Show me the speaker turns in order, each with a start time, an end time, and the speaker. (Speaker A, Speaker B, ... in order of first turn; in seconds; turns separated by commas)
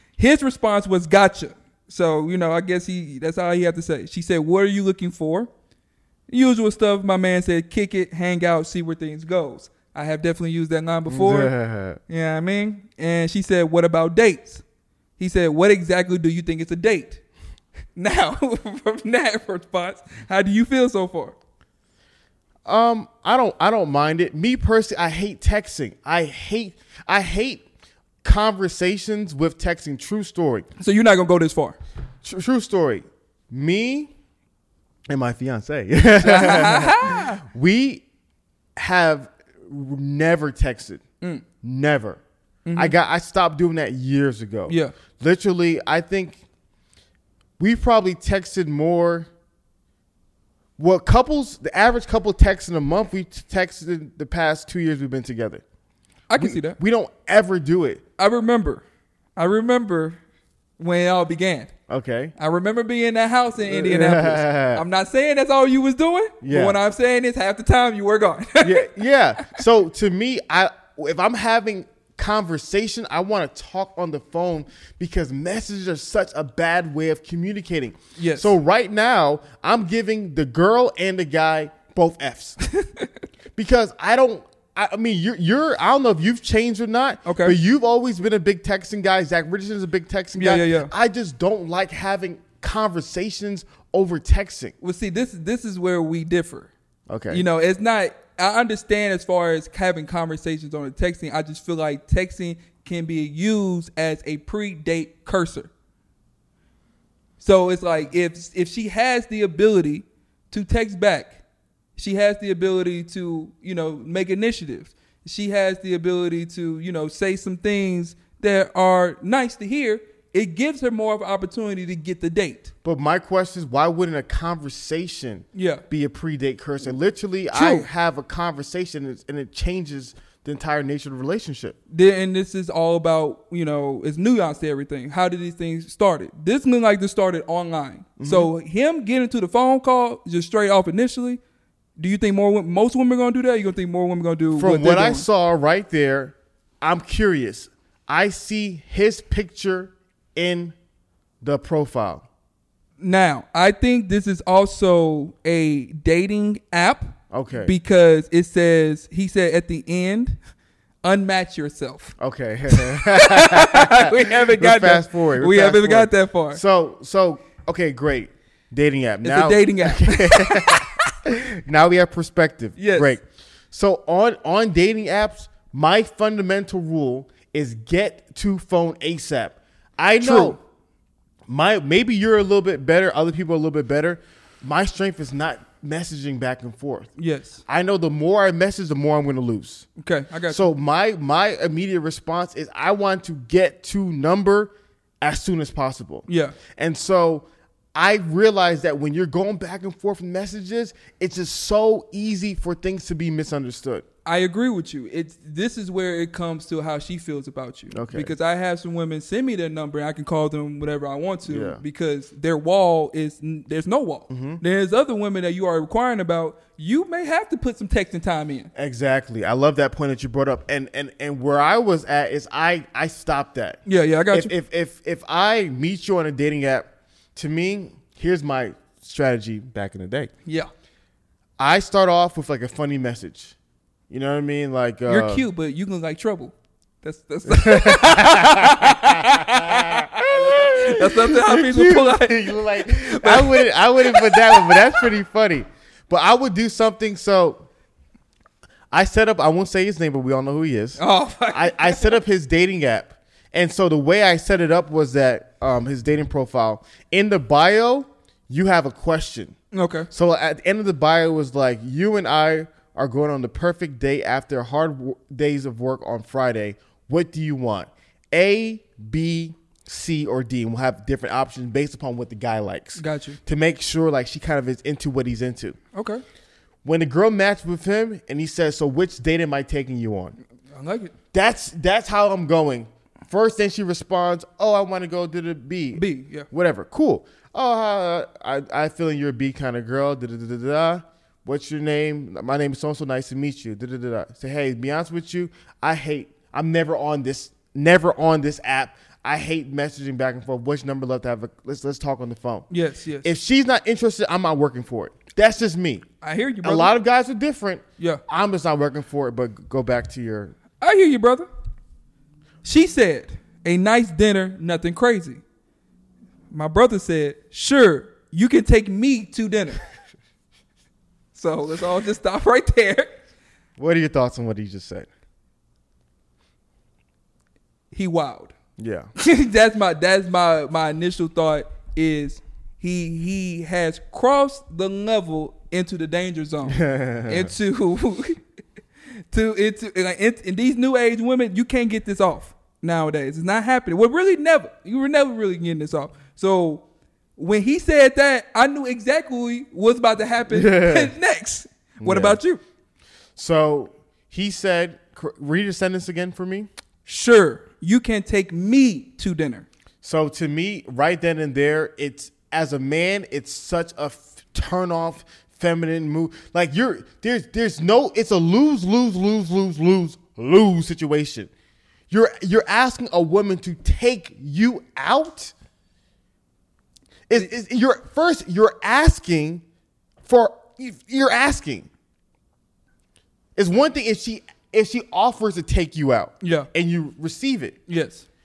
Speaker A: 0.2-5.5, Speaker A: 6.3-11.5, Speaker B: 11.1-12.0, Speaker A: 12.1-14.6, Speaker A: 15.2-17.2, Speaker A: 18.0-21.4, Speaker B: 22.7-27.7, Speaker B: 28.2-30.7, Speaker A: 30.8-31.8, Speaker B: 32.2-34.1, Speaker B: 35.1-38.0, Speaker A: 36.2-37.4, Speaker B: 38.8-41.0, Speaker B: 41.6-42.2, Speaker A: 42.6-42.9, Speaker B: 42.8-46.4, Speaker A: 44.7-44.9, Speaker B: 47.6-49.3, Speaker B: 50.8-55.6, Speaker A: 56.3-56.8, Speaker B: 56.4-58.0, Speaker A: 58.2-58.8, Speaker A: 59.4-60.2, Speaker A: 60.8-61.7, Speaker B: 61.9-62.3, Speaker A: 62.4-69.6, Speaker B: 63.6-64.8, Speaker B: 66.4-66.8, Speaker B: 68.6-82.6, Speaker A: 78.2-78.5, Speaker A: 82.8-83.1, Speaker B: 83.6-94.8, Speaker A: 87.2-87.6, Speaker A: 90.3-90.9, Speaker A: 94.8-96.7, Speaker B: 97.1-97.4, Speaker A: 97.3-105.7, Speaker A: 107.4-111.4, Speaker A: 112.0-122.7, Speaker B: 122.8-131.8, Speaker A: 125.5-125.8, Speaker A: 127.5-127.9, Speaker A: 131.9-141.4, Speaker B: 138.2-138.5, Speaker A: 142.0-145.3, Speaker B: 144.6-150.8, Speaker B: 151.4-152.2, Speaker A: 153.0-160.4, Speaker B: 157.3-157.7, Speaker A: 161.0-162.1, Speaker B: 162.2-180.6, Speaker A: 162.7-166.6, Speaker A: 169.2-171.0, Speaker A: 172.8-173.2, Speaker A: 180.2-180.6, Speaker B: 181.5-187.1, Speaker A: 187.2-187.6, Speaker B: 187.7-189.9, Speaker A: 190.0-190.7, Speaker B: 190.5-204.1, Speaker A: 196.3-196.6, Speaker A: 204.2-218.7, Speaker B: 207.9-208.3, Speaker B: 211.5-211.8, Speaker B: 214.3-214.6, Speaker B: 218.8-223.8, Speaker A: 223.9-224.5, Speaker B: 224.3-230.3, Speaker B: 231.6-233.6, Speaker B: 234.1-235.5, Speaker A: 235.1-245.1, Speaker B: 237.5-247.7, Speaker B: 248.9-251.0, Speaker A: 251.0-252.2, Speaker B: 251.5-259.5, Speaker A: 259.7-260.1, Speaker B: 260.1-275.8, Speaker A: 273.0-273.4, Speaker A: 275.9-276.2, Speaker B: 276.9-280.4, Speaker A: 280.7-281.1, Speaker B: 281.3-302.7, Speaker A: 285.9-286.5, Speaker A: 302.7-303.3, Speaker B: 303.2-306.0, Speaker A: 306.2-306.9, Speaker B: 306.6-310.6, Speaker A: 310.8-311.5, Speaker A: 312.6-315.4, Speaker A: 316.5-319.8, Speaker A: 321.4-323.1, Speaker B: 323.8-325.1, Speaker A: 327.9-328.5, Speaker B: 328.8-329.1, Speaker A: 329.2-338.4, Speaker B: 336.7-337.5, Speaker A: 339.3-346.9, Speaker A: 347.4-352.6, Speaker B: 350.5-351.1, Speaker B: 352.0-352.4, Speaker B: 353.4-356.7, Speaker A: 357.1-359.7, Speaker B: 360.0-371.5, Speaker B: 372.1-375.5, Speaker B: 377.3-379.6, Speaker B: 380.3-381.9, Speaker B: 383.6-387.8, Speaker A: 386.4-386.7, Speaker A: 387.9-388.2